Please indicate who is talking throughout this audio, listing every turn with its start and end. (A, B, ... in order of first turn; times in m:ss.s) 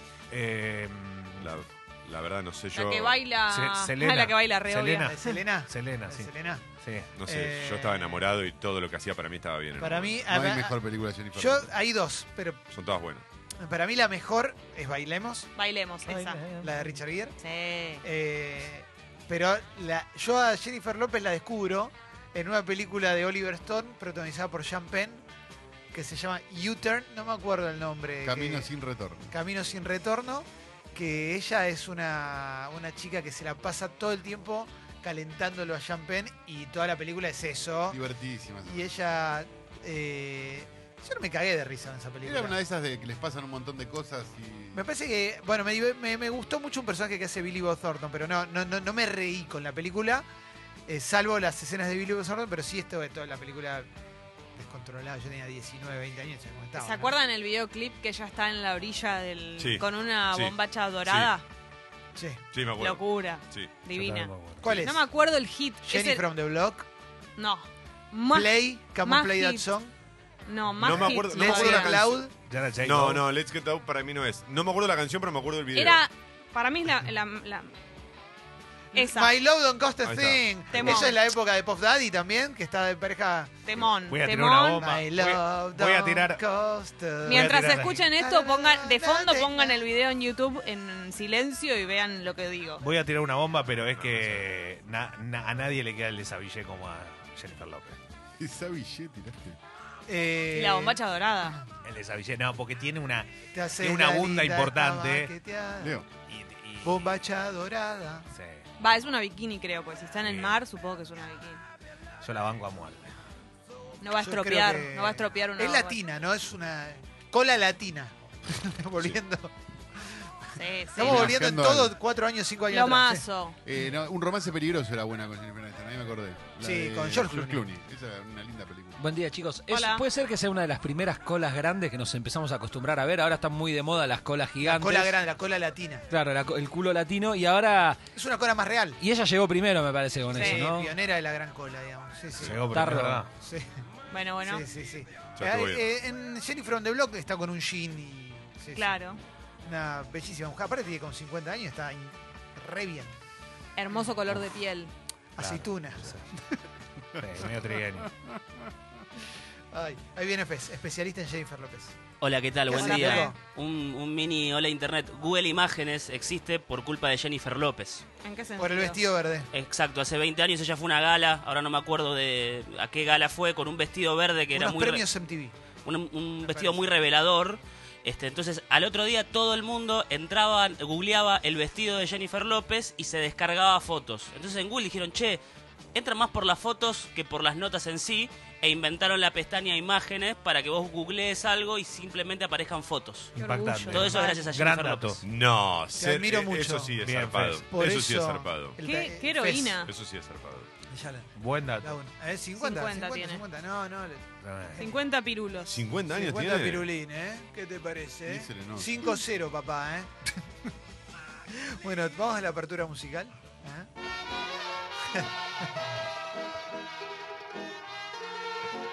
0:00.3-0:01.5 A
0:01.4-0:03.2 B
0:02.7-0:05.2 C
0:03.5-0:07.1 A
0:05.1-0:06.6 D
0:07.2-0:10.2 B
0:07.2-0:08.2 D
0:09.8-0:10.8 D
0:10.3-0:11.7 E
0:11.3-0:12.6 D
0:12.7-0:13.2 B
0:13.6-0:15.5 D
0:15.6-0:16.4 C
0:16.1-0:17.0 A
0:16.6-0:17.4 D
0:17.4-0:18.0 C
0:18.0-0:25.2 D
0:25.9-0:28.7 D
0:28.2-0:29.3 E
0:29.3-0:38.0 D
0:37.9-0:38.9 E
0:38.6-0:42.6 D
0:42.2-0:44.9 E
0:44.7-0:50.3 D
0:50.9-0:53.9 D
0:54.6-0:57.1 D
0:56.8-1:01.4 C
0:59.6-1:01.3 B
1:02.2-1:02.4 D
1:02.5-1:03.7 B
1:02.8-1:06.2 C
1:03.9-1:04.8 A
1:04.6-1:05.0 D
1:05.8-1:06.9 D
1:07.4-1:09.6 C
1:08.3-1:09.9 D
1:10.5-1:12.0 C
1:10.8-1:12.2 B
1:10.9-1:12.3 D
1:12.5-1:13.2 A
1:12.8-1:16.0 B
1:15.7-1:17.7 C
1:18.9-1:19.4 C
1:18.9-1:23.5 D
1:20.0-1:21.1 B
1:20.8-1:21.2 C
1:23.7-1:24.8 C
1:24.1-1:26.4 A
1:24.8-1:29.8 D
1:27.2-1:32.8 C
1:27.3-1:27.9 A
1:32.8-1:38.0 A
1:34.0-1:34.4 B
1:38.4-1:39.6 E
1:40.1-1:41.0 D
1:40.5-1:41.6 C
1:41.8-1:45.3 A
1:43.5-1:46.0 D
1:45.8-1:46.1 E
1:46.3-1:47.1 A
1:46.8-1:48.3 D
1:48.3-1:48.6 A
1:48.8-1:51.6 C
1:50.2-1:50.5 A
1:52.2-1:53.0 A
1:54.0-1:56.0 C
1:54.2-2:00.3 D
2:00.6-2:01.4 C
2:00.9-2:03.3 D
2:01.0-2:02.0 E
2:02.7-2:03.6 C
2:03.7-2:09.0 E
2:06.6-2:07.6 D
2:09.0-2:15.2 F
2:09.7-2:10.0 C
2:14.6-2:16.1 D
2:16.1-2:18.0 F
2:18.2-2:19.0 D
2:19.0-2:21.0 F
2:20.3-2:20.7 C
2:20.3-2:22.6 D
2:22.4-2:23.3 A
2:22.7-2:23.2 F
2:23.4-2:23.7 D
2:24.1-2:24.7 C
2:24.4-2:29.0 D
2:25.4-2:25.8 B
2:28.8-2:29.2 C
2:29.6-2:33.1 D
2:33.8-2:34.9 C
2:35.4-2:36.6 D
2:35.4-2:36.3 A
2:37.2-2:38.1 A
2:38.0-2:38.7 E
2:39.7-2:42.0 D
2:42.2-2:48.0 G
2:42.7-2:43.4 D
2:42.7-2:43.3 C
2:48.2-2:49.0 C
2:48.6-2:49.5 D
2:49.5-2:55.1 G
2:54.5-2:55.6 D
2:55.8-3:05.4 G
2:56.5-2:56.8 D
3:05.9-3:13.4 G
3:13.4-3:14.6 C
3:13.4-3:15.2 A
3:13.9-3:15.2 G
3:15.2-3:18.8 B
3:16.0-3:17.0 D
3:17.0-3:17.6 A
3:17.7-3:19.8 D
3:18.8-3:19.9 C
3:19.8-3:20.7 B
3:20.9-3:21.3 D
3:21.4-3:22.0 A
3:21.8-3:24.3 D
3:22.6-3:23.4 C
3:24.4-3:24.8 A
3:24.8-3:25.8 C
3:25.6-3:26.9 B
3:26.1-3:30.1 D
3:28.3-3:29.2 E
3:31.5-3:33.9 D